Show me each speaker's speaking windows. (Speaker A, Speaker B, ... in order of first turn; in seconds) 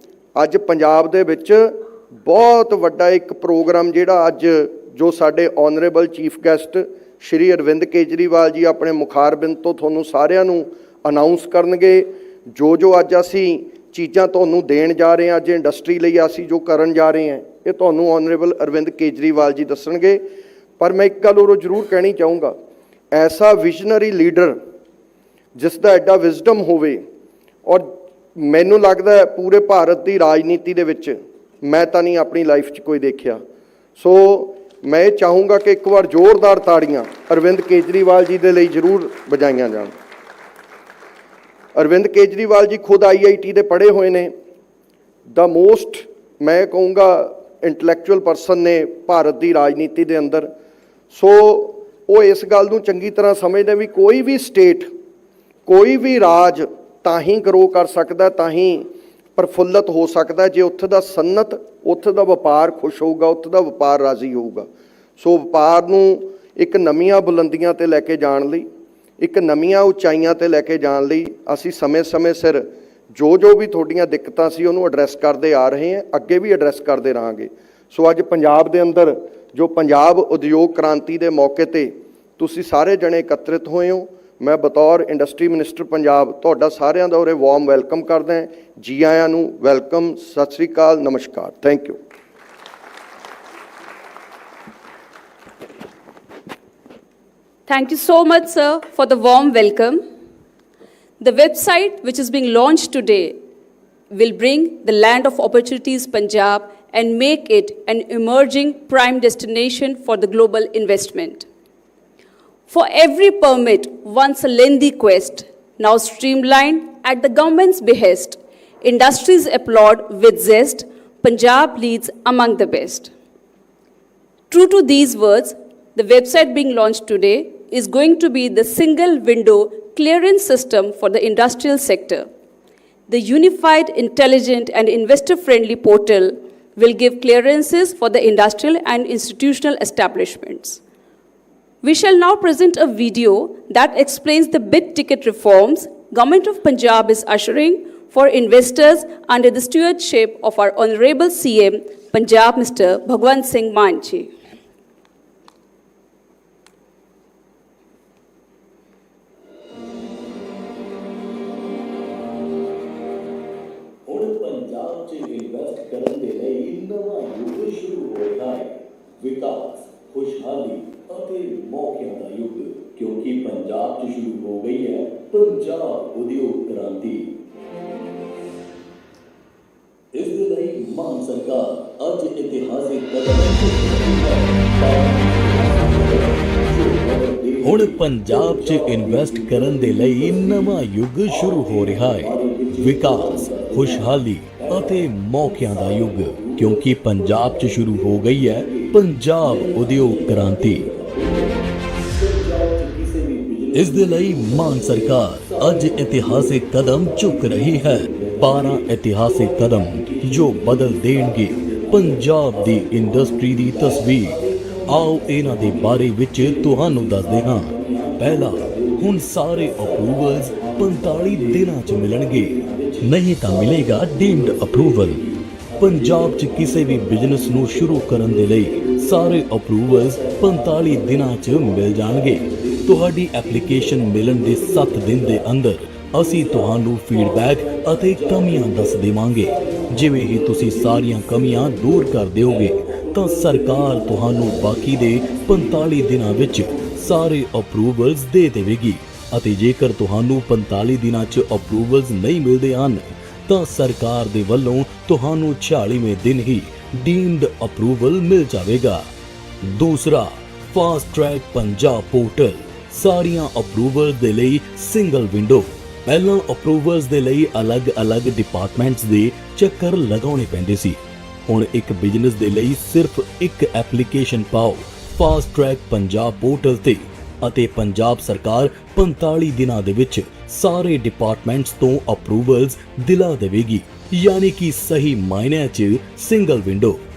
Speaker A: 0.3-20.2, 20.8-22.5, 23.1-24.6, 25.6-27.0, 27.6-33.4, 34.0-39.9, 41.7-44.3, 45.3-50.5, 51.1-54.9, 55.6-64.7, 65.2-68.7, 69.2-92.0
Speaker B: 97.7-100.0, 101.2-103.4, 104.1-111.5, 112.7-123.1, 124.5-132.2, 133.1-140.8, 141.8-154.3
Speaker C: 164.1-168.4, 170.8-172.0, 172.8-173.9, 174.5-174.9, 180.1-201.6, 202.1-235.5, 236.1-247.3
Speaker D: 169.3-171.0, 171.5-172.7, 174.0-174.4, 175.2-177.2, 187.6-200.9, 203.7-225.2, 225.8-259.0, 259.6-287.0